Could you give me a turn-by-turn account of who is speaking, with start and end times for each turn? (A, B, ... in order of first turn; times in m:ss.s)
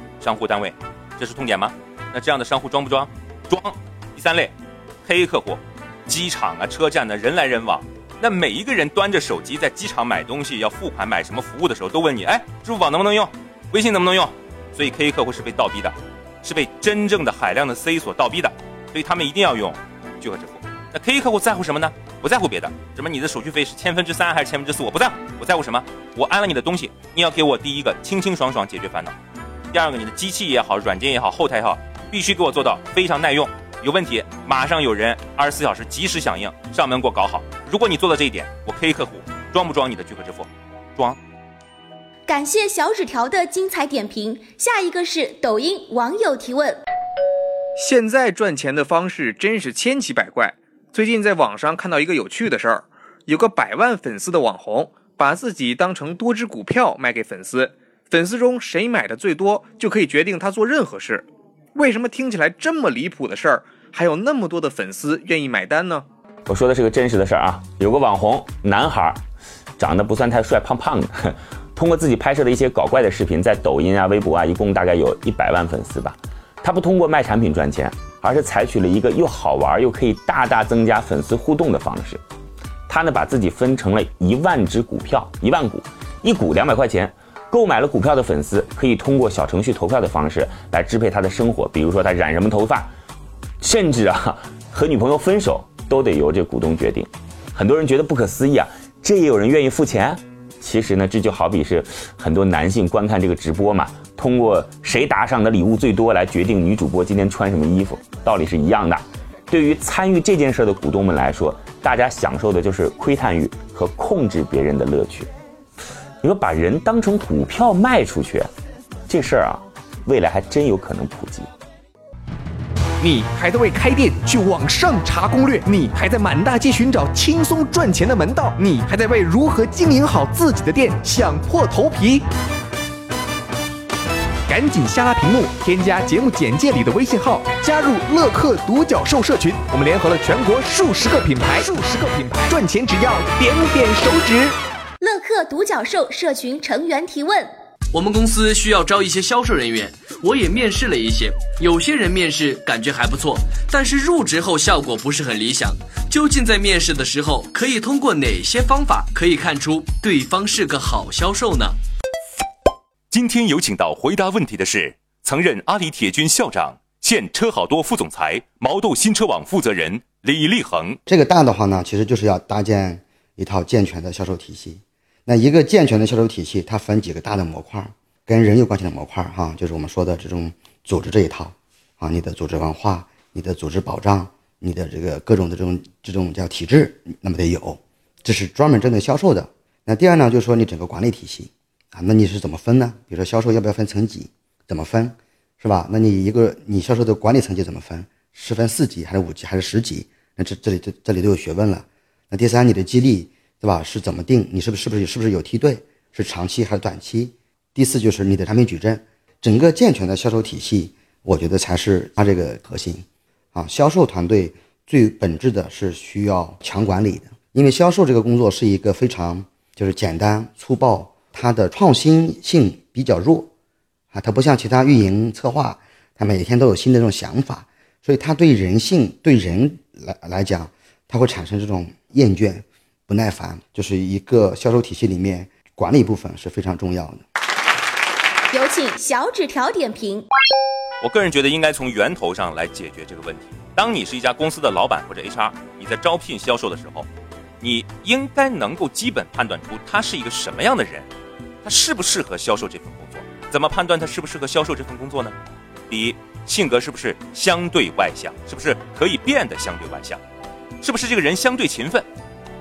0:00.2-0:04.5 A
0:05.0-0:29.1 A
0:29.7-0:41.2 A
0:42.3-0:46.8 B
0:47.8-1:06.0 C
1:06.5-1:09.2 D
1:09.8-1:22.2 D
1:22.9-1:32.9 D
1:33.6-1:55.3 D
1:56.2-1:58.5 D
1:59.1-2:01.5 D
2:03.0-2:12.2 C
2:14.5-2:24.6 C
2:25.0-2:27.5 B
2:27.9-2:41.8 E
2:43.1-2:51.0 A
2:51.1-3:43.5 F
3:44.1-3:57.2 F
3:58.5-4:00.3 B
4:01.0-4:07.1 A
4:07.6-4:11.1 A
4:11.6-4:15.4 A
4:15.9-4:20.2 A
4:20.8-4:22.1 A